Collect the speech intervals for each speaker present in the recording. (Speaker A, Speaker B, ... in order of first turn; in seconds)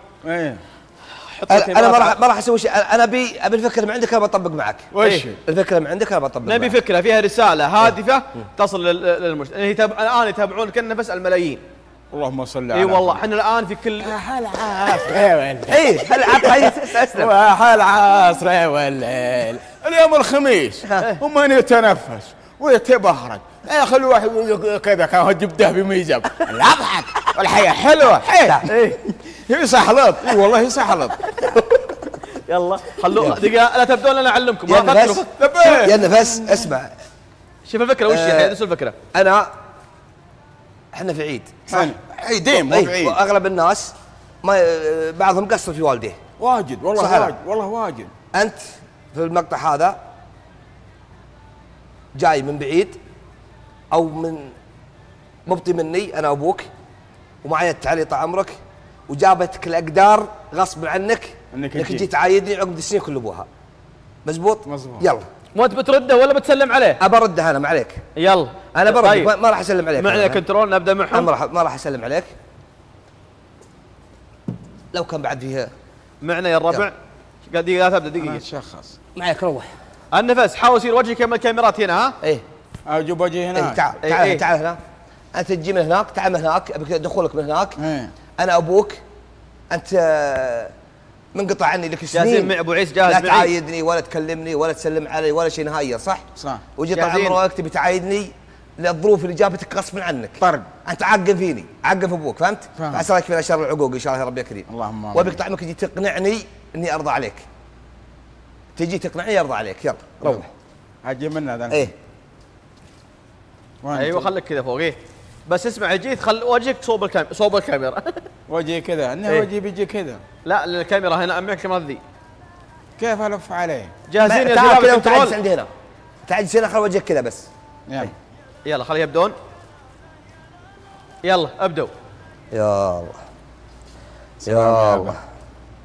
Speaker A: 0.2-0.6, 4.9-5.4, 12.1-13.2, 14.0-31.3, 35.3-36.7, 41.7-43.2, 46.4-48.1, 61.5-62.1, 64.7-65.1, 78.2-79.0, 82.9-83.8, 87.8-88.1, 96.3-96.6, 100.4-100.7, 102.8-103.1, 104.7-105.4, 111.0-111.9, 113.8-114.3, 118.5-120.2, 123.0-123.9, 127.9-128.1, 134.4-135.2
Speaker B: 1.2-2.2, 5.0-5.3, 6.4-11.6, 12.7-14.1, 28.6-29.0, 31.3-31.6, 32.3-35.3, 37.6-39.0, 65.5-67.0, 68.2-69.3, 70.0-71.3, 76.2-77.0, 77.5-78.4, 80.1-82.2, 84.0-84.4, 92.1-93.5, 96.9-97.4, 113.9-118.3, 120.4-122.0, 124.1-125.3, 128.6-129.3, 131.2-131.9
Speaker C: 1.5-4.9, 5.5-6.8, 15.7-17.3, 33.1-33.4, 34.7-36.9, 38.1-38.6, 39.1-39.5, 40.9-41.9, 42.5-46.2, 46.9-47.3, 48.3-50.0, 52.1-53.0, 53.9-54.5, 55.5-56.7, 57.4-58.6, 59.1-63.5, 64.2-65.2, 67.0-68.0, 68.7-70.4, 71.1-72.3, 74.9-75.7, 79.2-79.7, 83.5-84.8, 85.3-87.8, 88.4-89.0, 89.7-90.7, 91.3-96.2, 96.8-107.5, 108.8-110.5, 124.2-125.7, 126.2-127.5, 132.5-133.1, 134.5-135.2